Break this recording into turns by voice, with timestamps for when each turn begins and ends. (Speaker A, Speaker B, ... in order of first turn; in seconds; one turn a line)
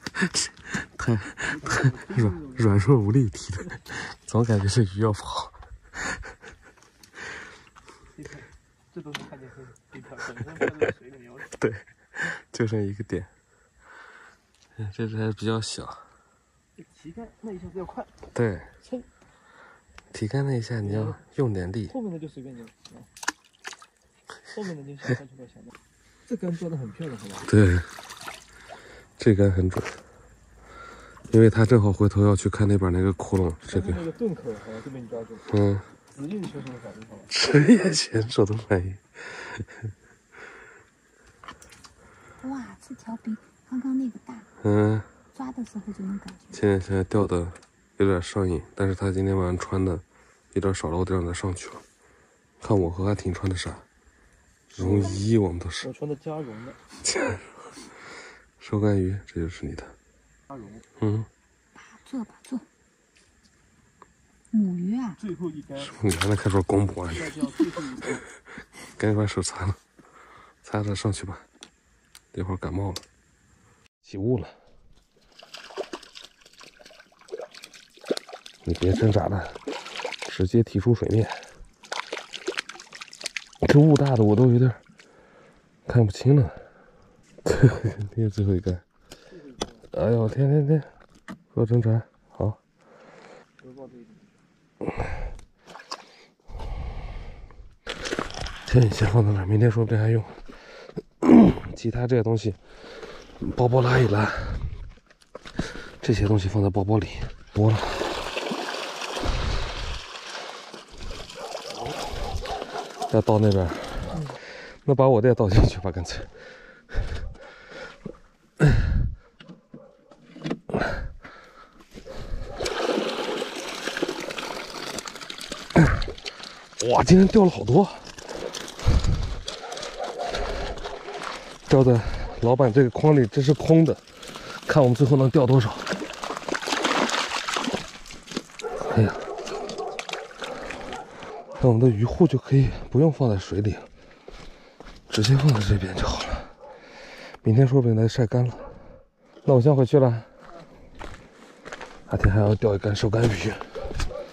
Speaker A: 0.2-5.5
Speaker B: 1.7-2.2
Speaker B: 8.9-11.4
Speaker A: 11.4-13.3
Speaker A: 14.8-16.0
Speaker B: 16.8-18.1
Speaker A: 18.3-18.7
Speaker A: 20.1-22.0
Speaker B: 21.9-23.1
Speaker B: 24.5-25.7
Speaker B: 26.3-27.4
Speaker A: 27.5-27.9
Speaker A: 29.2-30.0
Speaker A: 31.3-34.0
Speaker B: 33.7-35.4
Speaker A: 35.5-35.9
Speaker B: 36.2-37.3
Speaker A: 37.3-39.7
Speaker C: 42.4-44.5
Speaker A: 44.6-45.1
Speaker C: 45.3-46.6
Speaker A: 46.5-51.8
Speaker A: 52.6-53.8
Speaker A: 54.7-55.9
Speaker B: 54.8-55.1
Speaker B: 55.8-56.8
Speaker A: 57.0-57.5
Speaker A: 58.6-60.0
Speaker A: 61.0-61.3
Speaker C: 61.8-62.6
Speaker C: 64.5-65.2
Speaker A: 65.7-68.2
Speaker A: 68.8-69.8
Speaker A: 70.6-71.5
Speaker A: 72.3-73.0
Speaker A: 74.0-74.5
Speaker A: 78.7-79.6
Speaker A: 80.2-81.4
Speaker A: 83.6-84.8
Speaker A: 85.9-86.6
Speaker A: 87.5-88.8
Speaker A: 89.9-90.9
Speaker A: 91.5-92.6
Speaker B: 93.6-94.3
Speaker A: 98.6-100.4
Speaker A: 101.2-102.6
Speaker A: 103.2-104.8
Speaker A: 105.9-108.2
Speaker A: 113.1-116.5
Speaker A: 126.8-128.1
Speaker A: 131.7-135.9
Speaker A: 138.8-139.3
Speaker A: 141.6-143.9
Speaker A: 145.1-146.5
Speaker A: 147.3-148.8
Speaker A: 149.4-150.3
Speaker A: 152.1-154.0